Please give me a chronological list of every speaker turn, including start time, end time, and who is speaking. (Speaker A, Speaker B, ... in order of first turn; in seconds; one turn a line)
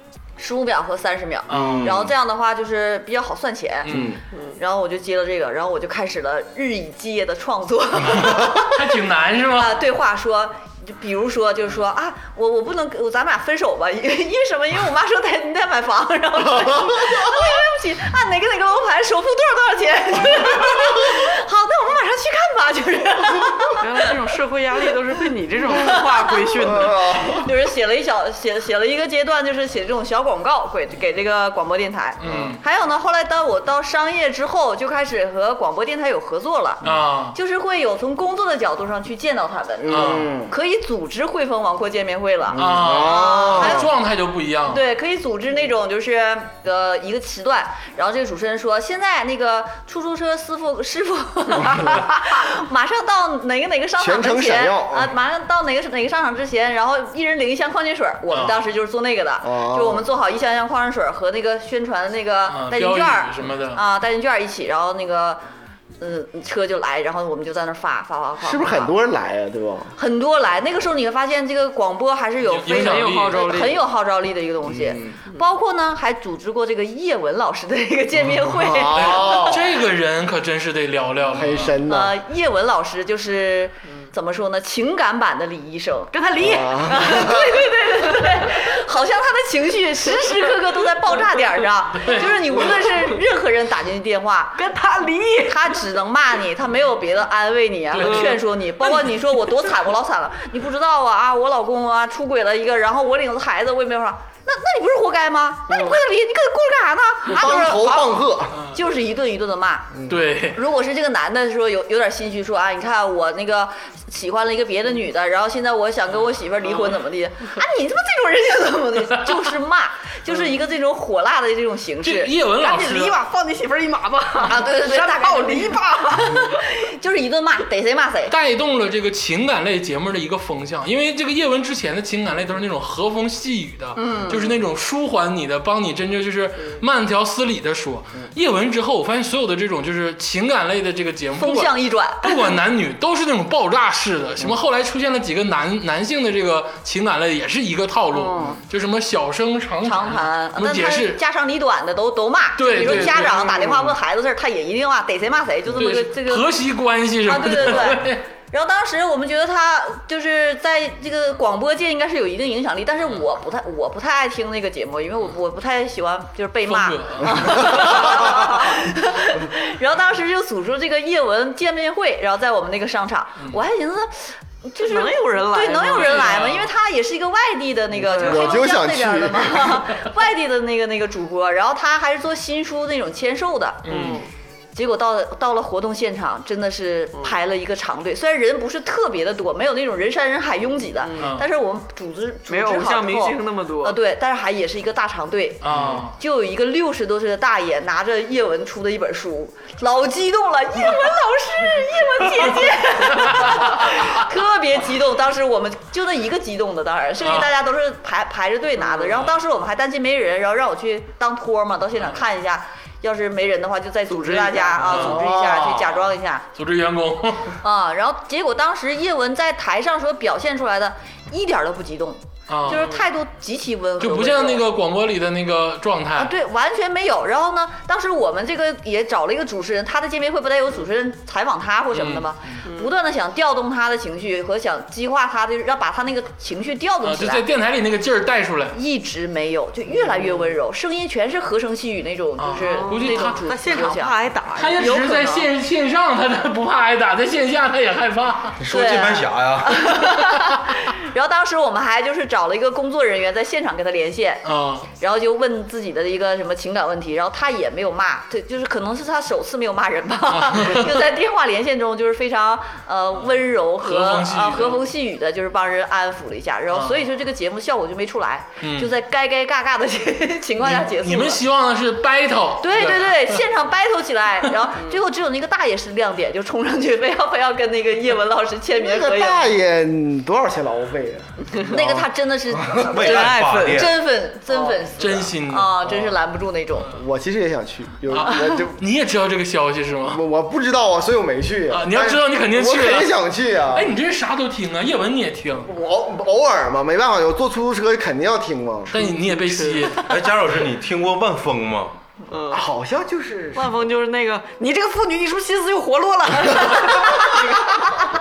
Speaker A: 0.4-8.9
Speaker B: 1.5-1.9
Speaker C: 1.5-2.1
Speaker B: 3.8-4.2
Speaker C: 3.9-4.2
Speaker D: 4.3-4.6
Speaker B: 8.2-9.8
Speaker A: 9.4-24.1
Speaker D: 23.8-27.0
Speaker A: 25.7-36.8
Speaker C: 26.6-27.5
Speaker B: 32.2-32.6
Speaker C: 32.2-32.5
Speaker B: 36.8-37.4
Speaker A: 37.3-43.9
Speaker C: 39.8-40.5
Speaker B: 39.9-40.3
Speaker C: 42.5-43.9
Speaker B: 42.5-44.8
Speaker A: 44.7-65.4
Speaker C: 54.0-55.1
Speaker B: 58.3-58.6
Speaker C: 59.4-60.1
Speaker B: 62.5-63.8
Speaker A: 66.0-68.9
Speaker C: 68.4-69.9
Speaker A: 70.0-79.6
Speaker B: 72.4-73.6
Speaker D: 72.7-73.8
Speaker C: 74.6-75.2
Speaker C: 78.4-79.7
Speaker B: 78.9-81.8
Speaker C: 81.3-82.2
Speaker A: 81.8-94.6
Speaker D: 86.1-87.0
Speaker C: 86.4-87.7
Speaker B: 92.0-92.3
Speaker D: 92.1-93.2
Speaker D: 94.5-95.8
Speaker A: 95.4-108.2
Speaker B: 97.9-98.4
Speaker D: 98.0-99.7
Speaker D: 105.7-106.0
Speaker C: 107.3-108.6
Speaker B: 108.5-108.8
Speaker A: 108.7-122.3
Speaker C: 109.9-110.2
Speaker B: 110.1-110.6
Speaker B: 122.0-123.2
Speaker D: 122.6-126.7
Speaker A: 124.4-128.3
Speaker B: 128.3-151.2
Speaker A: 133.9-134.6
Speaker A: 141.4-142.5
Speaker A: 148.1-148.6
Speaker A: 149.8-156.5
Speaker B: 152.6-153.9
Speaker B: 155.7-158.2
Speaker A: 157.2-183.8
Speaker B: 166.6-168.2
Speaker D: 174.8-176.5
Speaker B: 175.8-176.7
Speaker D: 178.0-178.6
Speaker C: 178.1-179.8
Speaker B: 183.8-184.2
Speaker D: 183.8-184.3
Speaker A: 184.7-195.6
Speaker D: 191.0-191.3
Speaker B: 191.2-191.5
Speaker D: 192.5-194.0
Speaker B: 195.6-196.2
Speaker A: 196.2-216.4
Speaker B: 203.0-204.0
Speaker B: 207.2-207.5
Speaker D: 208.8-209.3
Speaker D: 214.1-215.3
Speaker B: 214.8-215.2
Speaker C: 214.9-216.1
Speaker B: 216.5-217.6
Speaker A: 217.6-224.6
Speaker B: 222.5-222.9
Speaker D: 222.7-223.1
Speaker B: 224.0-226.3
Speaker A: 226.2-237.4
Speaker B: 231.9-232.6
Speaker D: 232.6-232.9
Speaker B: 237.0-238.8
Speaker A: 238.7-244.1
Speaker D: 240.0-240.5
Speaker B: 242.4-243.4
Speaker D: 242.6-245.4
Speaker B: 244.5-248.6
Speaker E: 248.6-249.8
Speaker A: 248.7-271.4
Speaker B: 249.9-250.4
Speaker B: 254.4-254.9
Speaker B: 260.3-260.9
Speaker B: 263.2-264.9
Speaker B: 266.7-267.0
Speaker B: 268.6-268.9
Speaker B: 270.6-273.4
Speaker A: 272.6-279.4
Speaker D: 274.7-275.0
Speaker C: 278.7-283.0
Speaker A: 281.6-286.9
Speaker E: 282.8-284.0
Speaker D: 283.0-283.9
Speaker D: 284.5-284.8
Speaker B: 285.0-285.7
Speaker C: 285.8-286.2
Speaker C: 286.9-288.8
Speaker B: 288.1-290.2
Speaker C: 290.1-293.9
Speaker B: 291.7-293.1
Speaker B: 293.7-295.7
Speaker C: 295.6-298.9
Speaker B: 298.9-300.2
Speaker D: 298.9-299.9
Speaker E: 300.0-301.9
Speaker D: 302.3-302.6
Speaker C: 302.5-303.8
Speaker D: 303.5-308.1